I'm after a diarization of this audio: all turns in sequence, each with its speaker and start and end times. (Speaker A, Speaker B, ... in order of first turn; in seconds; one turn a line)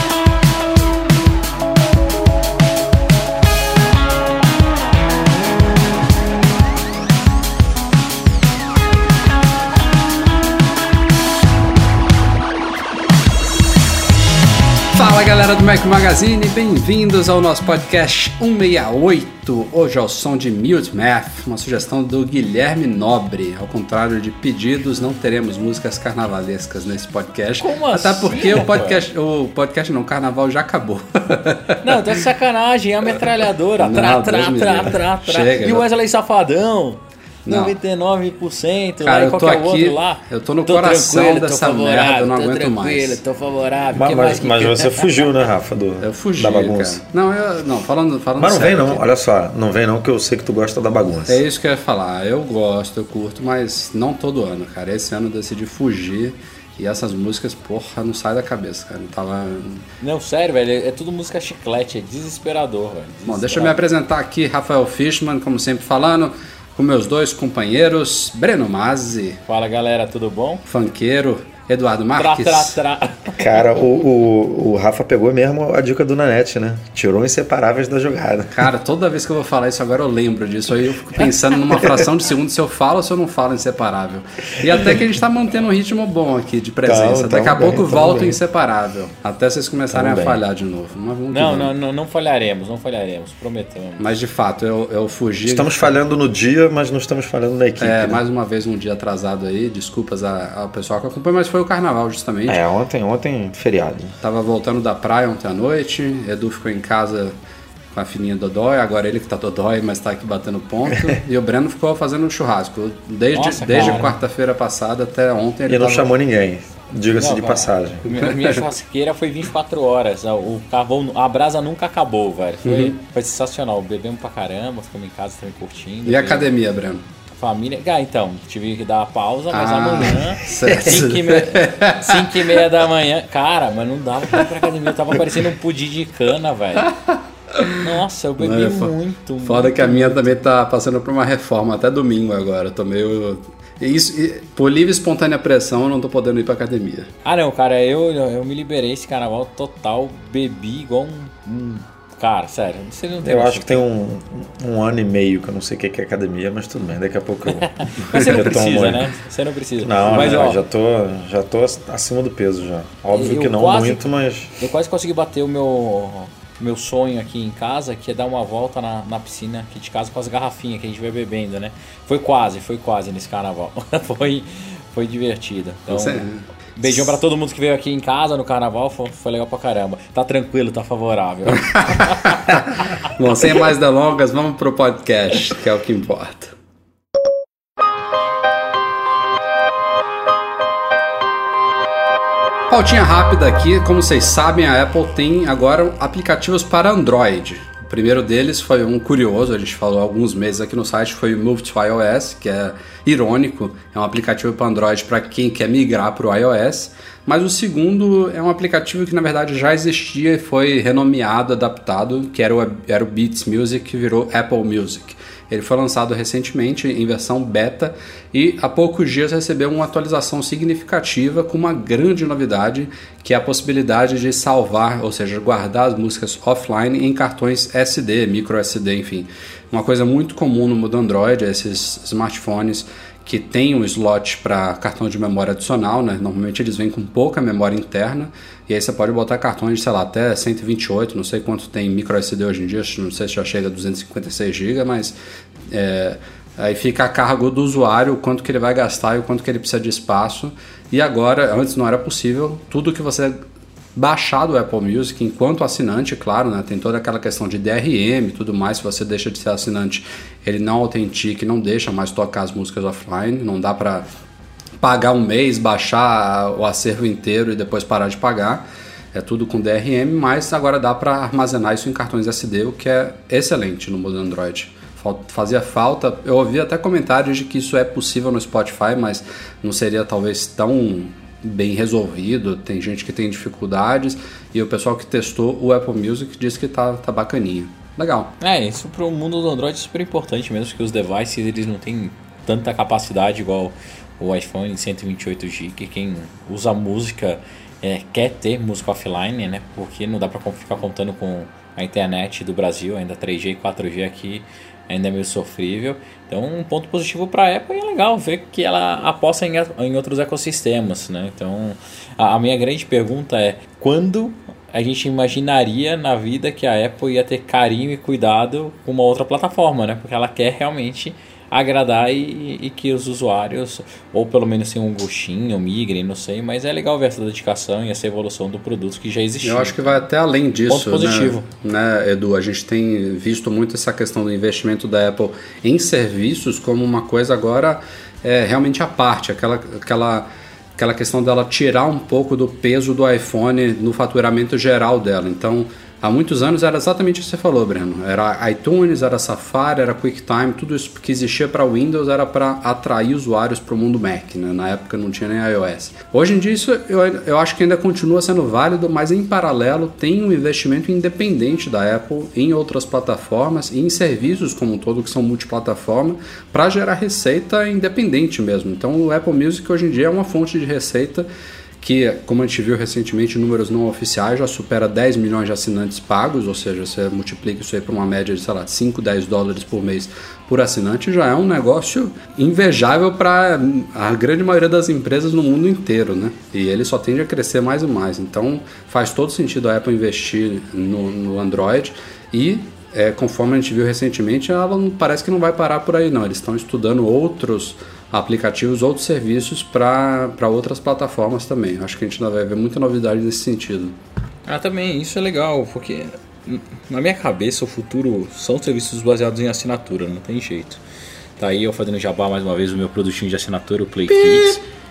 Speaker A: 14.9-32.2
Speaker B: 27.6-29.1
Speaker B: 31.8-45.3
Speaker A: 33.8-35.9
Speaker A: 37.5-37.8
Speaker A: 39.0-43.2
Speaker C: 43.9-47.0
Speaker A: 46.0-49.1
Speaker C: 48.4-51.4
Speaker A: 51.3-59.9
Speaker B: 60.0-63.8
Speaker A: 63.3-69.4
Speaker B: 69.5-70.7
Speaker A: 70.7-72.8
Speaker B: 72.2-73.5
Speaker C: 73.4-78.7
Speaker A: 78.5-91.7
Speaker C: 81.7-82.1
Speaker C: 84.7-85.0
Speaker C: 86.8-88.4
Speaker C: 89.9-90.4
Speaker B: 91.3-94.2
Speaker A: 94.0-95.9
Speaker C: 95.5-98.2
Speaker A: 97.8-102.6
Speaker C: 102.5-104.2
Speaker A: 104.2-107.3
Speaker A: 107.9-116.1
Speaker B: 113.3-114.2
Speaker C: 115.7-118.1
Speaker B: 117.2-126.5
Speaker A: 122.7-123.0
Speaker A: 126.1-127.0
Speaker B: 127.4-136.9
Speaker A: 129.5-132.6
Speaker A: 136.8-137.9
Speaker B: 137.7-140.3
Speaker A: 138.4-147.1
Speaker B: 147.2-153.8
Speaker C: 153.2-159.1
Speaker B: 157.6-160.6
Speaker C: 159.8-164.7
Speaker B: 163.1-164.0
Speaker B: 164.6-183.0
Speaker A: 175.9-177.2
Speaker A: 181.7-186.5
Speaker A: 192.7-245.2
Speaker A: 245.7-253.4
Speaker A: 253.9-264.1
Speaker A: 264.8-288.3
Speaker B: 288.4-330.0
Speaker A: 329.4-371.3
Speaker B: 330.7-331.4
Speaker A: 371.8-404.0
Speaker B: 404.5-410.8
Speaker B: 411.4-414.6